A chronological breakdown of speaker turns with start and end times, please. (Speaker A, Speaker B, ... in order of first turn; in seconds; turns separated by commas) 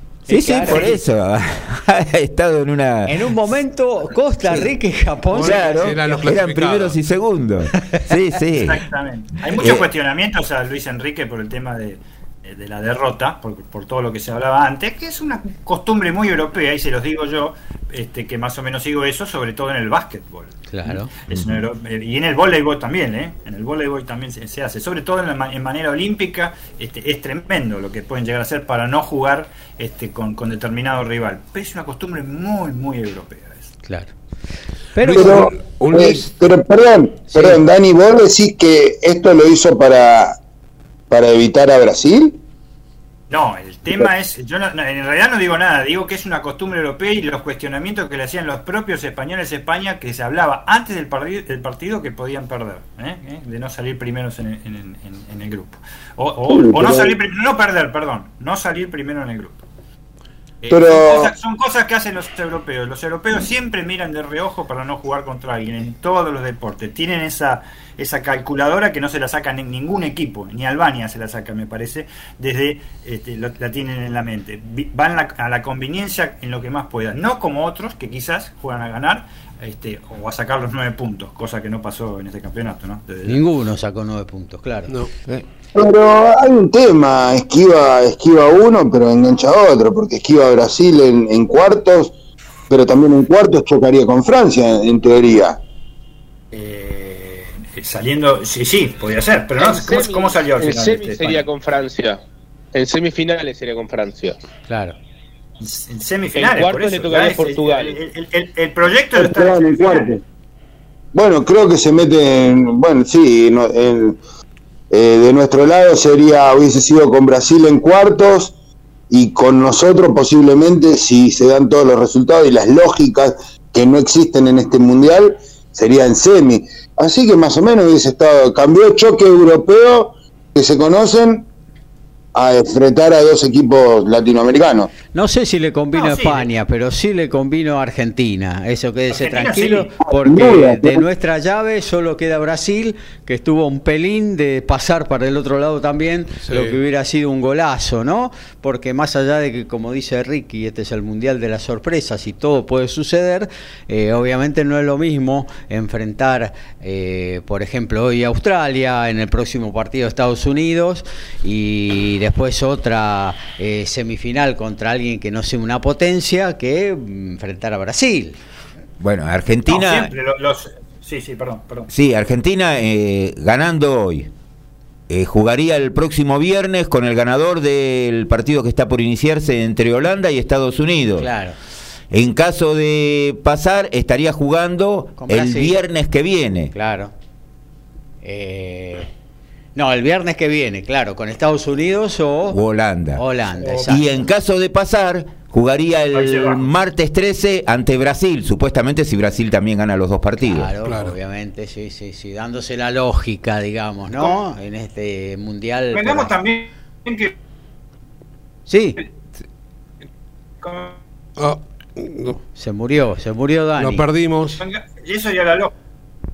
Speaker A: 0.3-3.2, Speaker B: 0.3-1.0, Speaker B: 3.1-6.2, Speaker C: 5.3-7.0, Speaker A: 5.4-8.8, Speaker D: 8.5-33.7, Speaker A: 9.5-9.9, Speaker B: 20.7-21.1, Speaker B: 33.9-34.1, Speaker B: 35.0-35.5, Speaker C: 35.0-36.3, Speaker E: 35.1-40.4, Speaker B: 37.3-37.6, Speaker E: 41.1-42.4, Speaker D: 43.3-59.6, Speaker E: 56.5-57.1, Speaker D: 60.6-83.4, Speaker E: 60.7-61.3, Speaker B: 83.3-84.9, Speaker C: 84.9-85.4, Speaker E: 85.8-92.1, Speaker E: 92.7-95.6, Speaker D: 96.5-101.5, Speaker F: 99.6-102.2, Speaker F: 102.7-104.4, Speaker B: 104.7-105.0, Speaker D: 105.6-110.2, Speaker F: 106.3-108.0, Speaker E: 109.2-110.2, Speaker E: 111.1-114.2, Speaker E: 114.9-118.5, Speaker E: 119.1-131.5, Speaker E: 132.3-134.9, Speaker B: 135.1-168.4, Speaker D: 135.9-136.5, Speaker D: 139.1-139.9, Speaker E: 140.1-141.0, Speaker C: 146.4-146.8, Speaker A: 169.0-170.1, Speaker D: 169.7-171.9, Speaker A: 171.9-174.3, Speaker A: 175.1-181.3, Speaker B: 181.2-181.6, Speaker A: 182.1-186.7, Speaker B: 185.2-185.8, Speaker B: 186.7-187.1, Speaker B: 188.2-189.1, Speaker B: 189.8-192.6, Speaker A: 192.5-193.2, Speaker B: 193.2-194.0, Speaker D: 193.6-194.0, Speaker A: 193.9-200.7, Speaker D: 196.1-196.7, Speaker B: 200.5-206.3, Speaker C: 200.8-201.2, Speaker D: 205.9-207.3, Speaker B: 208.7-209.0, Speaker D: 210.6-211.0, Speaker C: 211.4-212.4, Speaker B: 212.6-214.1, Speaker C: 213.8-214.6, Speaker D: 214.6-215.7